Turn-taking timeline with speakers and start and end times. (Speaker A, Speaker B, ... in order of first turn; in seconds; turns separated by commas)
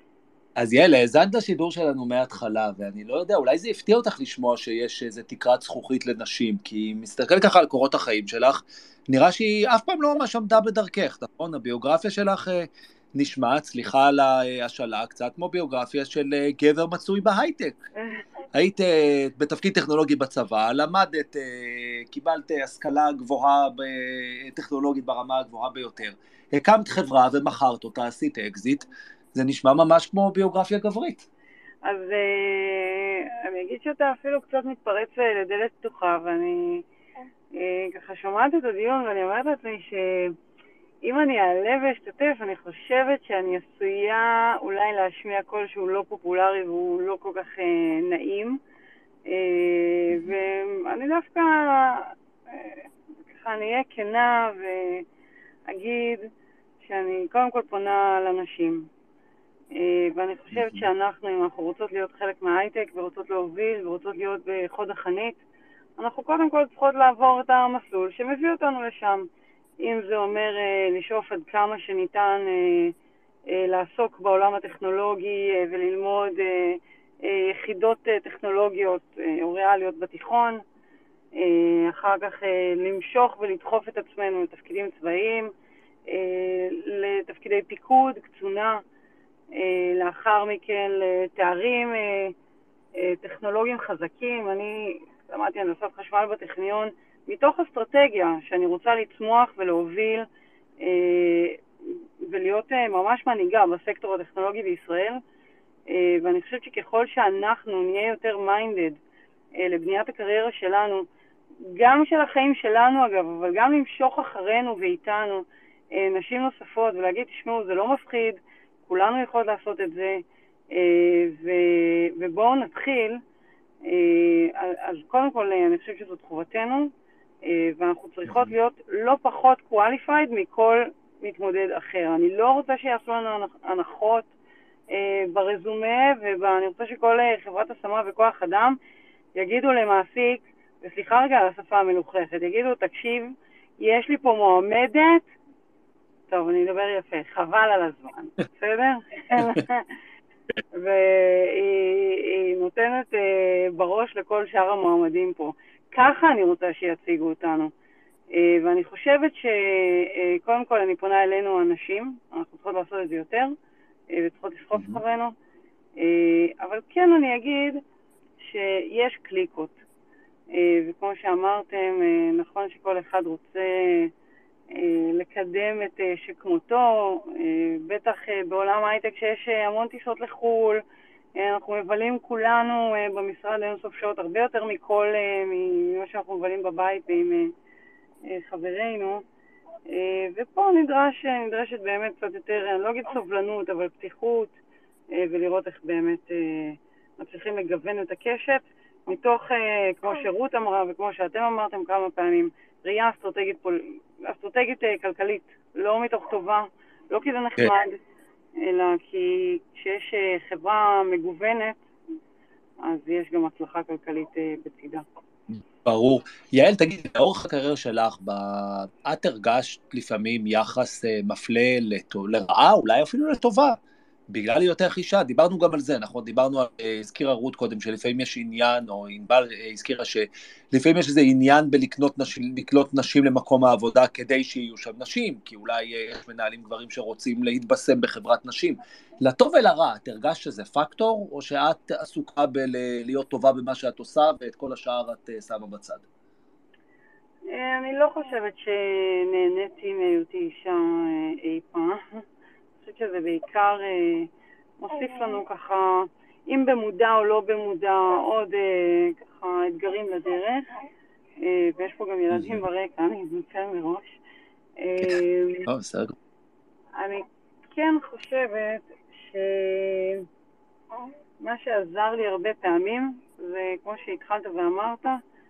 Speaker A: 0.6-17.8, Speaker A: 18.5-31.2, Speaker B: 31.9-36.8, Speaker B: 37.6-40.3, Speaker B: 41.0-48.6, Speaker B: 49.3-55.0, Speaker B: 55.7-56.3, Speaker B: 56.8-58.9, Speaker B: 59.8-65.4, Speaker A: 60.5-60.9, Speaker B: 66.0-69.2, Speaker B: 69.8-72.9, Speaker B: 73.5-80.6, Speaker B: 81.4-85.5, Speaker B: 86.1-88.8, Speaker B: 89.5-92.3, Speaker B: 93.0-100.3, Speaker B: 100.8-101.6, Speaker B: 102.2-105.2, Speaker B: 105.9-109.0, Speaker B: 109.6-111.0, Speaker B: 111.7-123.2, Speaker B: 123.8-126.9, Speaker B: 127.5-134.3, Speaker A: 128.3-128.5, Speaker B: 134.9-138.8, Speaker B: 139.4-145.3, Speaker B: 146.3-149.8, Speaker B: 150.7-157.7, Speaker B: 158.3-163.5, Speaker B: 164.1-165.3, Speaker A: 164.7-165.0, Speaker B: 166.0-167.8, Speaker B: 168.4-169.8, Speaker B: 170.5-174.1, Speaker B: 174.7-180.8, Speaker B: 181.4-187.5, Speaker B: 188.3-189.2, Speaker B: 189.9-194.5, Speaker B: 195.1-208.0, Speaker B: 208.6-211.8, Speaker B: 212.8-215.0, Speaker A: 215.5-223.8, Speaker A: 224.3-246.0, Speaker B: 247.5-252.2, Speaker B: 252.8-254.3, Speaker B: 254.8-260.6, Speaker B: 261.4-264.1, Speaker A: 262.3-262.6, Speaker B: 264.8-265.7, Speaker A: 265.0-266.1, Speaker B: 267.0-270.2, Speaker B: 271.4-275.2